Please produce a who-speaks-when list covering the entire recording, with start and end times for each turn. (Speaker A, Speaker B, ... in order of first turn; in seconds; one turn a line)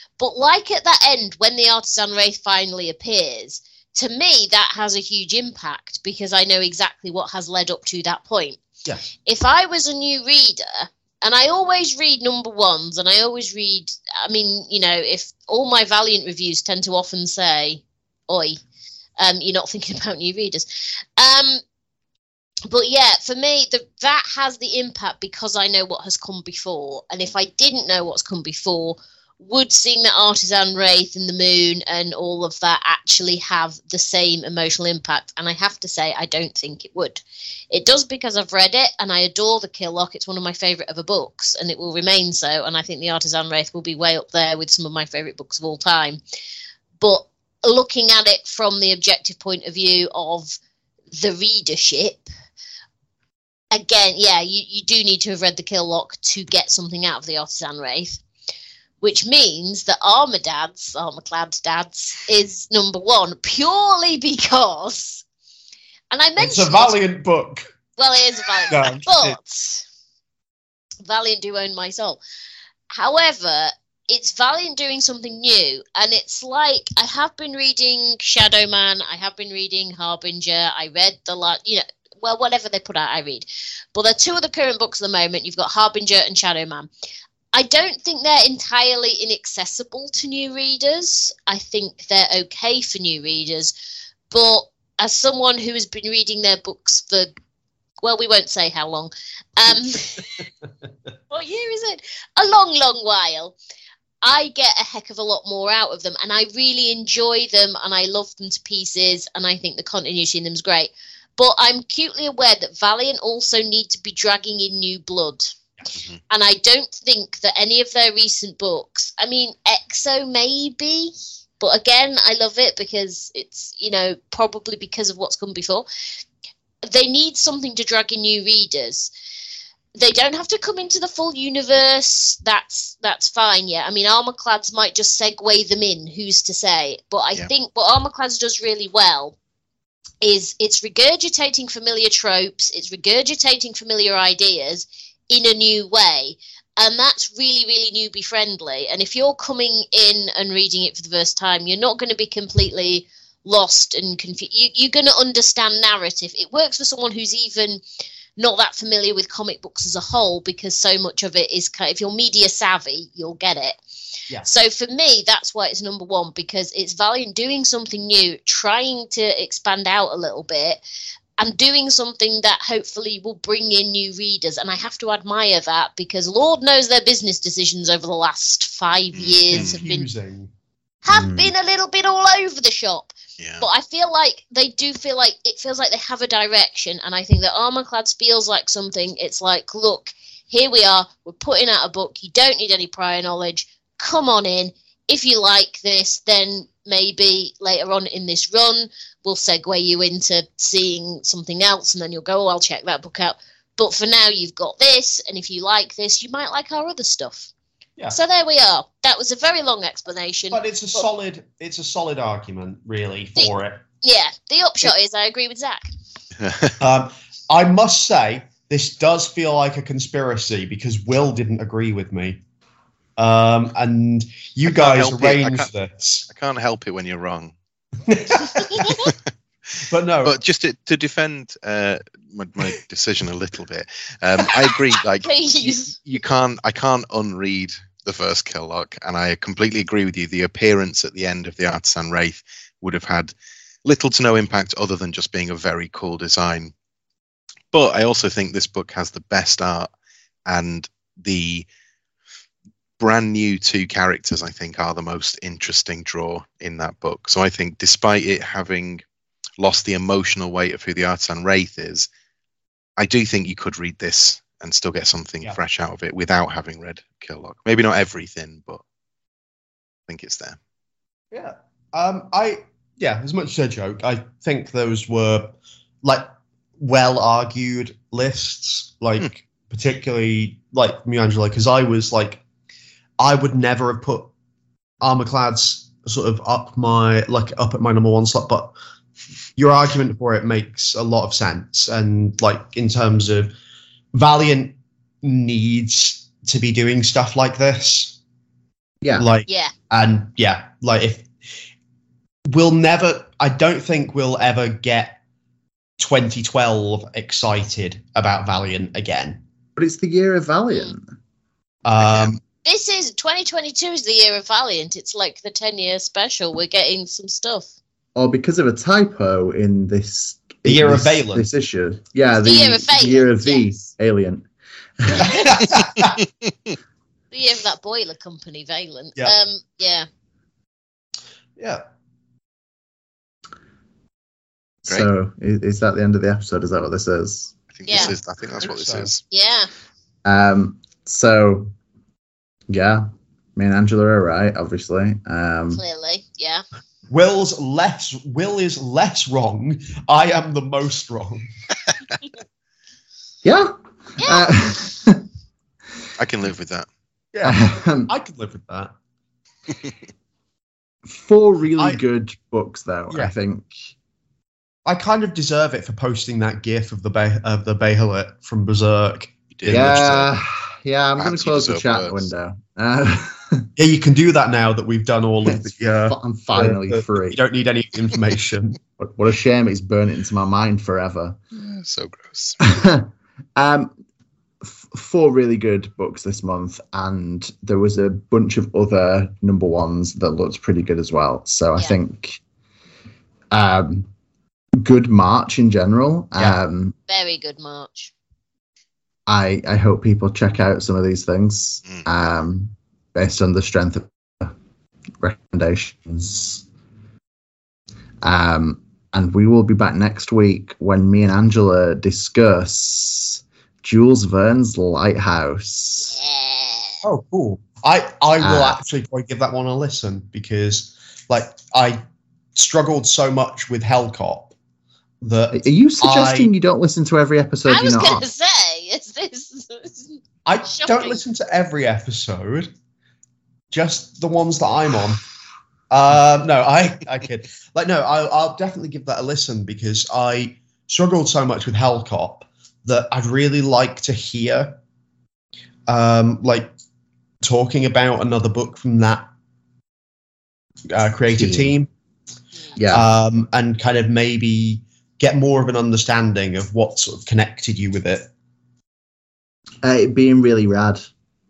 Speaker A: 0.2-8.6
Speaker A: 9.2-18.6
Speaker A: 19.2-20.7
Speaker A: 21.2-21.6
Speaker A: 22.7-46.2
Speaker A: 47.0-50.6
Speaker A: 51.1-52.3
Speaker A: 53.7-58.2
Speaker A: 59.0-65.2
Speaker A: 66.1-67.0
Speaker B: 66.4-67.7
Speaker A: 68.0-69.9
Speaker B: 68.7-69.4
Speaker A: 71.0-72.2
Speaker A: 72.9-86.9
Speaker A: 87.5-93.7
Speaker A: 94.3-97.3
Speaker A: 98.0-100.3
Speaker A: 101.3-103.6
Speaker A: 104.2-115.5
Speaker C: 115.9-116.2
Speaker A: 116.3-125.9
Speaker A: 126.8-129.1
Speaker A: 130.0-139.4
Speaker A: 140.2-157.8
Speaker A: 158.4-163.8
Speaker A: 164.4-170.8
Speaker A: 171.4-180.1
Speaker C: 179.1-179.8
Speaker B: 179.5-180.5
Speaker A: 181.0-207.5
Speaker D: 181.1-181.5
Speaker C: 183.4-183.7
Speaker A: 208.1-210.6
Speaker B: 210.5-213.8
Speaker A: 213.4-216.0
Speaker C: 216.4-216.8
Speaker B: 216.8-222.4
Speaker B: 223.2-226.3
Speaker C: 224.6-225.7
Speaker C: 226.3-227.5
Speaker B: 228.1-229.1
Speaker C: 228.9-229.1
Speaker B: 229.9-230.4
Speaker C: 230.2-243.3
Speaker A: 235.2-236.0
Speaker C: 243.8-246.7
Speaker C: 247.7-249.9
Speaker C: 250.5-251.7
Speaker C: 253.0-259.0
Speaker C: 259.6-262.1
Speaker C: 263.0-268.8
Speaker C: 270.1-270.6
Speaker B: 271.3-276.3
Speaker B: 276.8-282.4
Speaker B: 283.2-284.3
Speaker B: 285.0-288.8
Speaker B: 289.6-293.5
Speaker B: 294.1-298.2
Speaker D: 299.0-299.3
Speaker B: 299.2-301.3
Speaker A: 299.5-299.7
Speaker B: 302.5-305.2
Speaker B: 306.0-309.4
Speaker D: 309.8-311.0
Speaker B: 311.9-312.4
Speaker C: 312.0-312.4
Speaker A: 312.6-317.7
Speaker D: 318.2-324.5
Speaker B: 320.6-321.5
Speaker A: 322.4-323.8
Speaker D: 325.0-325.3
Speaker B: 325.2-326.2
Speaker A: 327.3-330.1
Speaker B: 331.6-331.8
Speaker D: 334.9-337.6
Speaker C: 337.7-339.2
Speaker A: 337.9-338.1
Speaker B: 338.6-339.1
Speaker A: 339.3-339.7
Speaker D: 340.2-341.7
Speaker D: 342.7-343.1
Speaker D: 343.6-345.8
Speaker A: 345.7-346.6
Speaker B: 347.1-351.5
Speaker D: 353.4-355.2
Speaker A: 354.2-354.6
Speaker C: 356.2-356.9
Speaker B: 357.3-358.9
Speaker D: 357.4-358.1
Speaker D: 361.1-363.7
Speaker B: 364.9-370.2
Speaker C: 369.5-370.3
Speaker D: 369.7-373.7
Speaker C: 371.2-372.3
Speaker B: 373.8-378.8
Speaker D: 375.5-377.4
Speaker D: 379.0-381.4
Speaker C: 381.5-382.6
Speaker D: 382.6-383.9
Speaker D: 384.6-392.4
Speaker D: 393.5-394.1
Speaker D: 394.8-396.9
Speaker A: 397.1-398.1
Speaker D: 399.3-404.5
Speaker D: 405.2-406.6
Speaker D: 408.2-416.2
Speaker A: 416.1-417.0
Speaker B: 417.0-422.0
Speaker D: 418.4-418.8
Speaker B: 422.6-424.6
Speaker B: 425.2-426.5
Speaker D: 425.5-428.3
Speaker A: 427.7-431.2
Speaker B: 430.4-432.7
Speaker B: 433.7-435.2
Speaker B: 435.9-444.8
Speaker B: 445.9-446.7
Speaker B: 447.4-449.3
Speaker B: 450.9-451.9
Speaker D: 451.3-451.8
Speaker D: 452.8-453.1
Speaker B: 452.9-458.3
Speaker D: 459.8-461.1